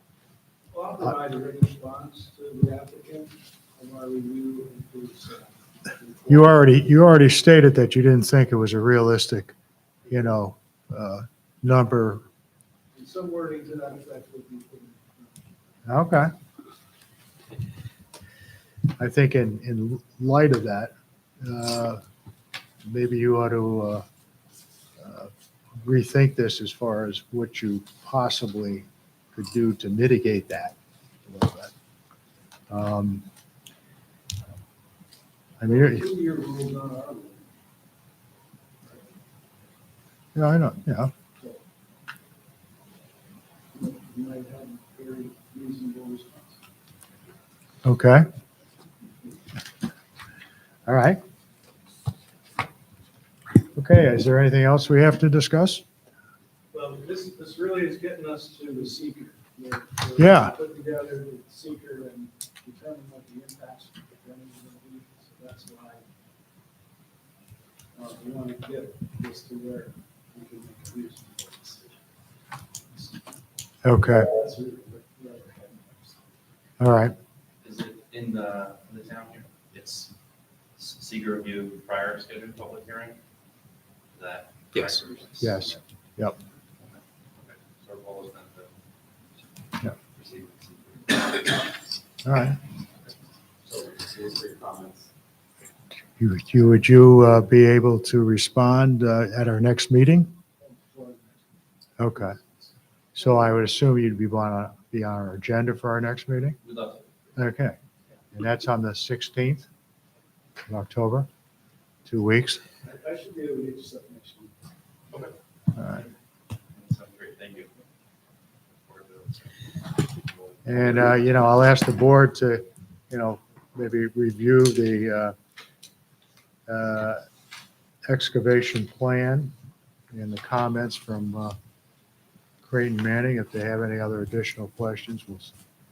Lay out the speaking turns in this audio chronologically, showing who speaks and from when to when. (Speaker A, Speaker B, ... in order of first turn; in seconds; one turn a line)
Speaker A: 0.7-6.5
Speaker B: 6.3-9.5
Speaker B: 10.1-12.2
Speaker A: 12.9-15.4
Speaker B: 15.8-16.3
Speaker B: 19.0-22.0
Speaker B: 22.9-24.0
Speaker B: 25.0-31.7
Speaker B: 32.7-33.2
Speaker B: 35.6-36.0
Speaker A: 35.6-37.5
Speaker B: 40.3-41.1
Speaker A: 43.7-46.6
Speaker B: 47.8-48.2
Speaker B: 50.9-51.2
Speaker B: 53.7-55.8
Speaker A: 56.7-66.0
Speaker B: 60.2-60.5
Speaker A: 67.9-72.0
Speaker A: 72.9-73.2
Speaker B: 73.8-74.3
Speaker A: 74.1-76.2
Speaker B: 76.8-77.1
Speaker C: 77.6-80.1
Speaker C: 80.8-83.2
Speaker C: 84.1-85.8
Speaker B: 85.4-86.3
Speaker C: 86.8-88.7
Speaker C: 89.8-91.5
Speaker B: 92.2-92.6
Speaker C: 93.7-95.1
Speaker B: 96.2-100.3
Speaker A: 100.6-101.5
Speaker B: 102.0-102.4
Speaker B: 103.1-106.6
Speaker C: 106.6-107.3
Speaker B: 107.3-107.8
Speaker B: 108.3-109.7
Speaker B: 110.7-111.3
Speaker B: 112.1-112.6
Speaker A: 112.8-114.5
Speaker C: 116.7-117.7
Speaker C: 118.8-121.1
Speaker B: 120.6-125.3
Speaker B: 126.7-127.2
Speaker B: 128.1-129.5
Speaker B: 130.1-131.6
Speaker B: 132.6-135.5